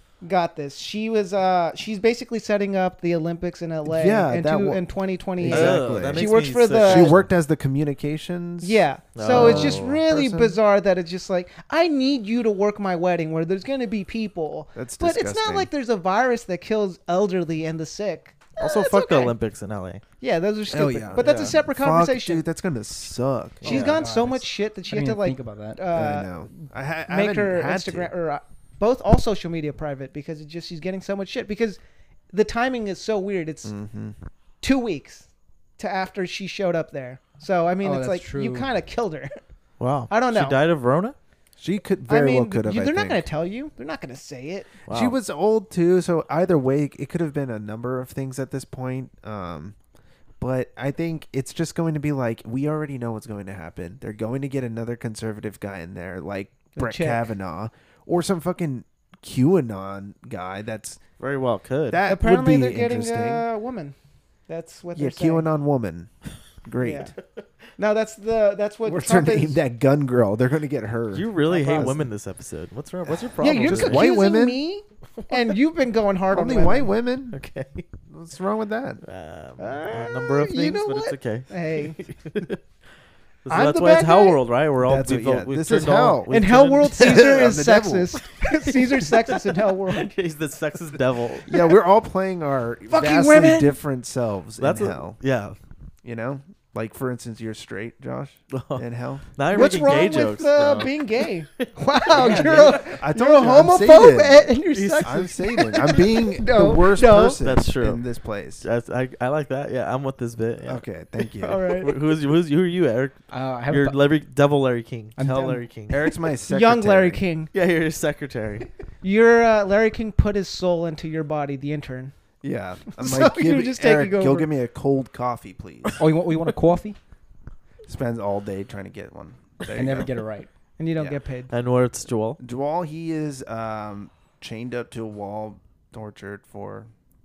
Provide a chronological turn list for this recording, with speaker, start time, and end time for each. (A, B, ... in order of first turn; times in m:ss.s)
0:00.2-0:07.2 A
0:03.8-0:04.8 B
0:05.4-0:10.6 B
0:05.5-0:07.2 C
0:08.6-0:19.3 A
0:09.2-0:10.0 C
0:14.7-0:15.7 B
0:18.6-0:20.0 C
0:20.2-0:22.4 A
0:20.7-0:23.7 B
0:21.2-0:21.6 C
0:23.6-0:25.8 D
0:23.6-0:31.8 A
0:23.7-0:24.0 C
0:25.9-0:28.1 B
0:32.3-0:33.7 A
0:33.6-0:34.2 B
0:34.6-0:35.3 A
0:35.8-0:39.4 A
0:37.8-0:38.7 D
0:39.8-0:41.2 C
0:40.1-0:40.6 A
0:41.6-0:43.2 B
0:42.1-0:44.7 A
0:44.8-0:45.2 C
0:44.9-0:49.8 B
0:50.4-1:01.0 B
0:56.7-0:57.3 A
1:01.2-1:02.0 C
1:01.9-1:03.4 B
1:02.1-1:04.0 A
1:04.5-1:05.5 A
1:04.9-1:06.1 B
1:06.6-1:07.1 B
1:06.8-1:07.1 A
1:07.8-1:09.6 A
1:08.8-1:12.1 B
1:11.1-1:14.1 C
1:13.1-1:14.6 B
1:13.4-1:16.9 A
1:16.3-1:17.4 B
1:17.3-1:17.8 C
1:18.1-1:19.0 B
1:19.0-1:22.6 C
1:19.6-1:22.0 A
1:23.4-1:27.3 C
1:23.5-1:24.4 A
1:24.8-1:28.1 B
1:26.3-1:30.1 A
1:28.6-1:31.5 C
1:31.4-1:35.2 B
1:32.9-1:33.8 A
1:34.6-1:35.6 C
1:36.0-1:39.3 B
1:38.5-1:42.8 C
1:39.5-1:47.4 A
1:42.1-1:42.8 D
1:42.9-1:48.6 B
1:44.7-1:46.0 C
1:47.4-1:48.0 C
1:48.6-1:50.8 C
1:50.6-1:51.8 B
1:51.4-1:51.9 A
1:51.8-1:56.0 C
1:53.3-1:54.0 D
1:55.2-1:55.6 D
1:55.9-1:57.2 B
1:56.5-1:57.5 A
1:57.5-1:58.7 C
1:59.0-2:02.1 A
2:02.4-2:06.0 B
2:02.9-2:04.5 A
2:06.0-2:07.0 D
2:07.8-2:10.1 B
2:09.7-2:10.5 D
2:10.8-2:11.5 A
2:11.5-2:12.4 C
2:12.4-2:16.9 B